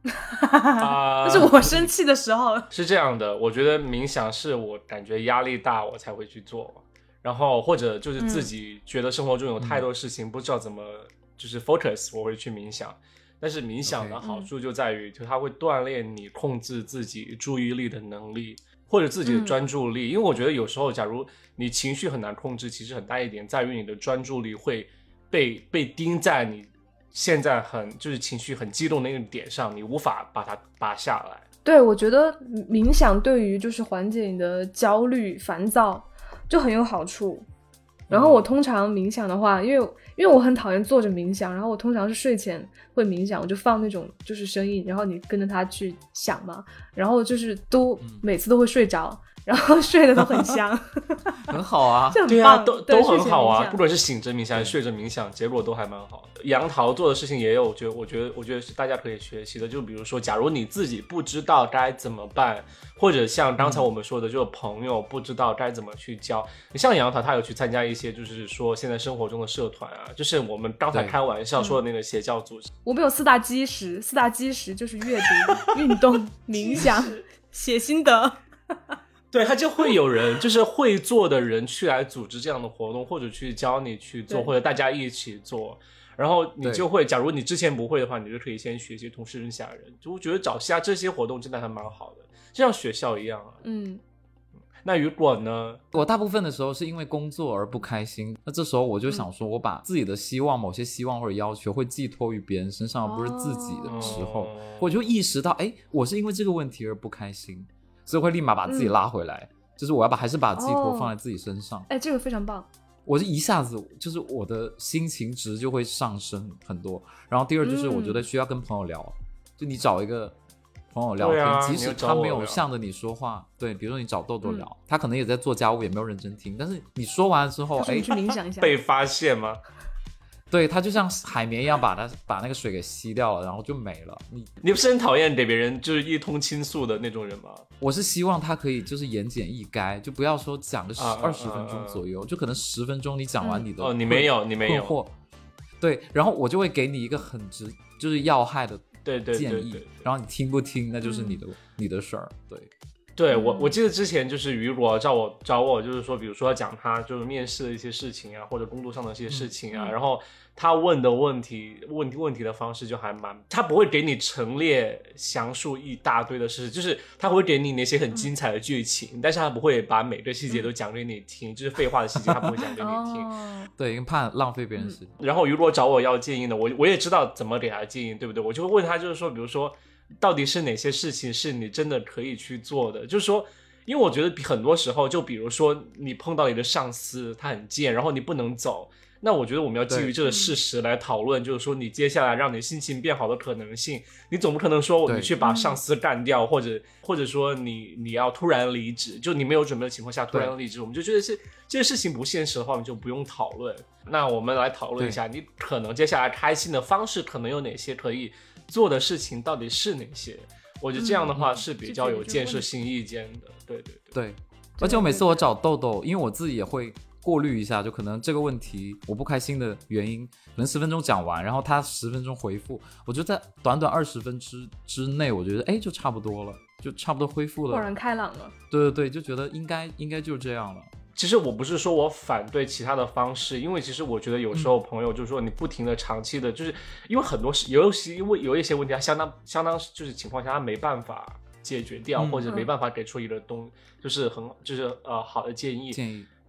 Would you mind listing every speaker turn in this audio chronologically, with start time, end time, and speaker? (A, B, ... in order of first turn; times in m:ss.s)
0:00.1-0:02.7 A
0:00.8-0:01.6 B
0:02.7-0:31.4 B
0:08.2-0:08.5 A
0:09.6-0:09.8 C
0:13.8-0:14.2 C
0:14.2-0:14.5 A
0:19.2-0:19.6 A
0:31.6-0:37.5 A
0:38.1-0:38.4 B
0:38.1-0:51.5 A
0:51.4-0:52.2 C
0:52.1-0:53.8 A
0:52.2-1:12.7 B
1:03.6-1:03.9 C
1:10.9-1:11.2 C
1:11.6-1:11.8 A
1:12.8-1:19.0 A
1:16.5-1:17.2 B
1:19.3-1:33.6 B
1:33.6-1:34.0 A
1:34.8-1:35.8 B
1:35.9-1:51.9 C
1:43.0-1:44.2 A
1:43.9-1:45.0 B
1:48.7-1:48.9 A
1:50.6-1:51.1 A
1:51.9-1:52.7 A
1:53.0-2:00.4 C
1:57.6-1:58.2 A
2:00.9-2:08.1 C
2:01.2-2:02.6 B
2:04.4-2:04.7 A
2:07.8-2:08.7 A
2:08.6-2:09.6 B
2:10.5-2:14.5 C
2:14.6-2:17.6 B
2:17.8-2:25.1 C
2:21.0-2:22.0 B
2:23.4-2:23.7 A
2:23.8-2:25.0 B
2:25.8-2:32.7 C
2:29.0-2:30.1 B
2:31.0-2:31.4 A
2:33.2-2:53.3 B
2:33.3-2:33.8 A
2:39.7-2:40.0 A
2:52.2-2:52.5 C
2:52.8-2:53.7 A
2:53.8-2:55.1 C
2:55.2-3:34.1 B
3:09.9-3:10.1 C
3:10.2-3:10.6 A
3:15.0-3:15.3 C
3:15.4-3:15.8 A
3:31.0-3:32.7 A
3:34.1-3:47.9 C
3:34.8-3:35.4 A
3:47.7-3:48.5 A
3:48.7-3:50.9 C
3:51.2-4:06.0 B
4:02.2-4:02.5 C
4:05.9-4:06.3 C